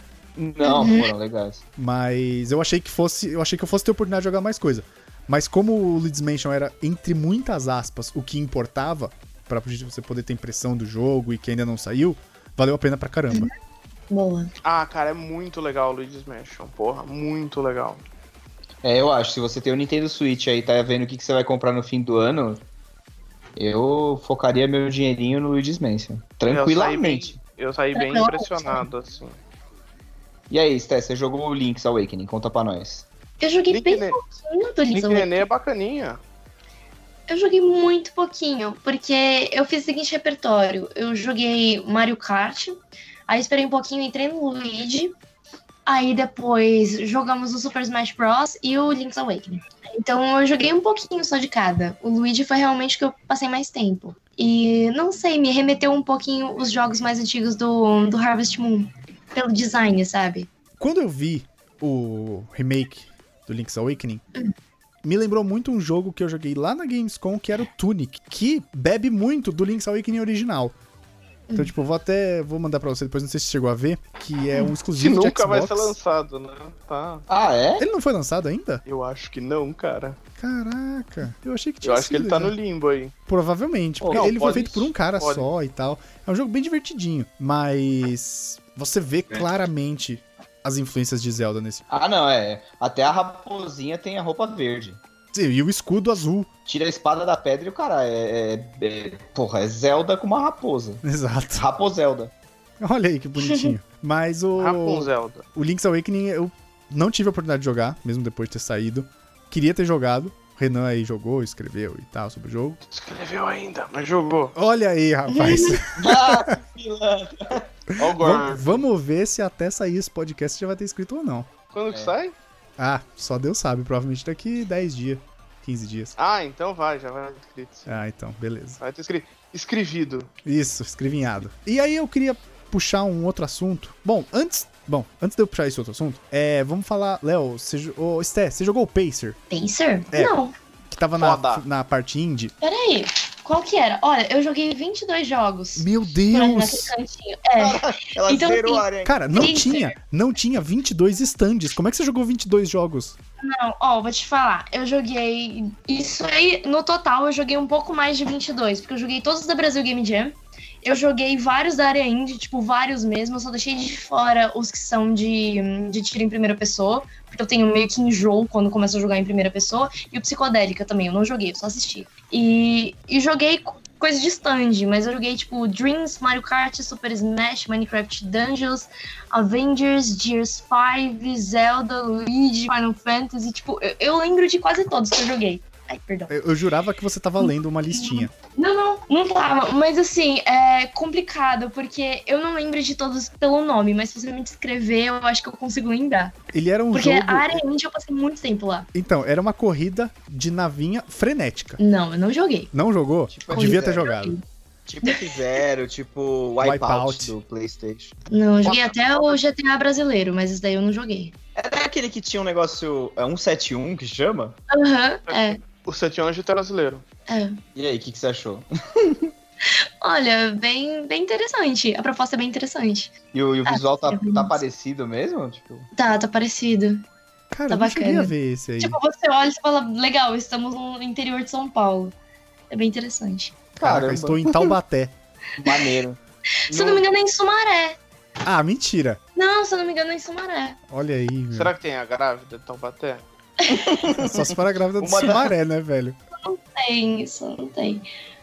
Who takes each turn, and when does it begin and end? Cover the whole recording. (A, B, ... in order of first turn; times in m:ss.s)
0:00.4-0:01.6 A
0:00.6-0:01.1 B
0:01.8-0:13.5 C
0:14.1-0:14.5 B
0:14.6-0:18.0 D
0:18.8-0:22.6 A
0:23.6-0:27.4 A
0:26.4-0:29.4 D
0:27.9-0:28.8 B
0:30.5-0:33.0 A
0:33.4-0:35.4 B
0:33.7-0:34.2 D
0:34.9-0:36.2 D
0:37.3-0:42.8 B
0:43.3-0:45.1 B
0:45.8-1:00.5 B
1:00.8-1:04.2 C
1:05.0-1:10.7 C
1:11.5-1:15.9 C
1:14.9-1:17.2 D
1:17.3-1:17.8 A
1:17.8-1:18.8 C
1:18.8-1:20.2 D
1:20.4-1:22.5 C
1:21.8-1:23.1 D
1:23.3-1:31.8 C
1:24.0-1:24.6 A
1:24.1-1:25.5 D
1:31.9-1:35.0 A
1:35.3-1:36.5 C
1:36.6-1:41.0 A
1:41.0-1:41.7 C
1:41.5-1:42.3 A
1:42.8-1:52.8 C
1:43.4-1:43.7 B
1:44.6-1:45.4 D
1:52.9-1:54.5 D
1:54.5-1:56.6 C
1:55.3-1:55.8 B
1:56.0-1:57.7 A
1:58.0-1:58.8 D
1:58.1-2:01.5 C
2:01.7-2:02.3 D
2:02.8-2:06.1 C
2:06.2-2:08.0 D
2:07.9-2:08.8 C
2:08.8-2:10.3 D
2:10.4-2:19.4 C
2:19.5-2:20.5 B
2:20.9-2:22.5 C
2:21.2-2:21.6 D
2:22.6-2:29.9 B
2:25.8-2:26.9 C
2:27.6-2:29.2 A
2:29.0-2:33.2 C
2:33.4-3:06.3 B
3:06.3-3:08.3 C
3:07.4-3:16.4 B
3:16.5-3:17.6 C
3:16.9-3:18.9 B
3:18.9-3:21.8 C
3:21.8-3:22.7 B
3:22.7-3:24.4 C
3:23.3-3:24.1 A
3:23.5-3:24.4 B
3:24.8-3:28.1 A
3:25.0-3:25.4 B
3:26.6-3:27.3 C
3:28.3-3:31.3 B
3:28.6-3:28.9 D
3:31.6-3:34.6 A
3:34.7-3:35.6 B
3:35.3-3:37.0 D
3:37.3-3:37.6 B
3:37.8-3:39.3 A
3:39.6-3:43.1 B
3:43.3-3:45.9 A
3:43.6-3:44.6 B
3:45.9-3:47.0 B
3:47.5-3:49.0 C
3:47.7-3:52.1 B
3:52.7-3:53.6 B
3:53.8-3:54.7 A
3:53.8-3:55.1 C
3:55.6-3:56.2 A
3:55.6-3:55.9 B
3:56.7-3:58.0 B
3:56.7-3:57.0 D
3:58.4-3:59.2 C
3:59.4-4:00.8 B
4:00.9-4:01.7 C
4:01.5-4:03.2 D
4:03.6-4:03.9 B
4:03.7-4:05.5 A
4:04.1-4:06.2 C
4:06.4-4:08.0 B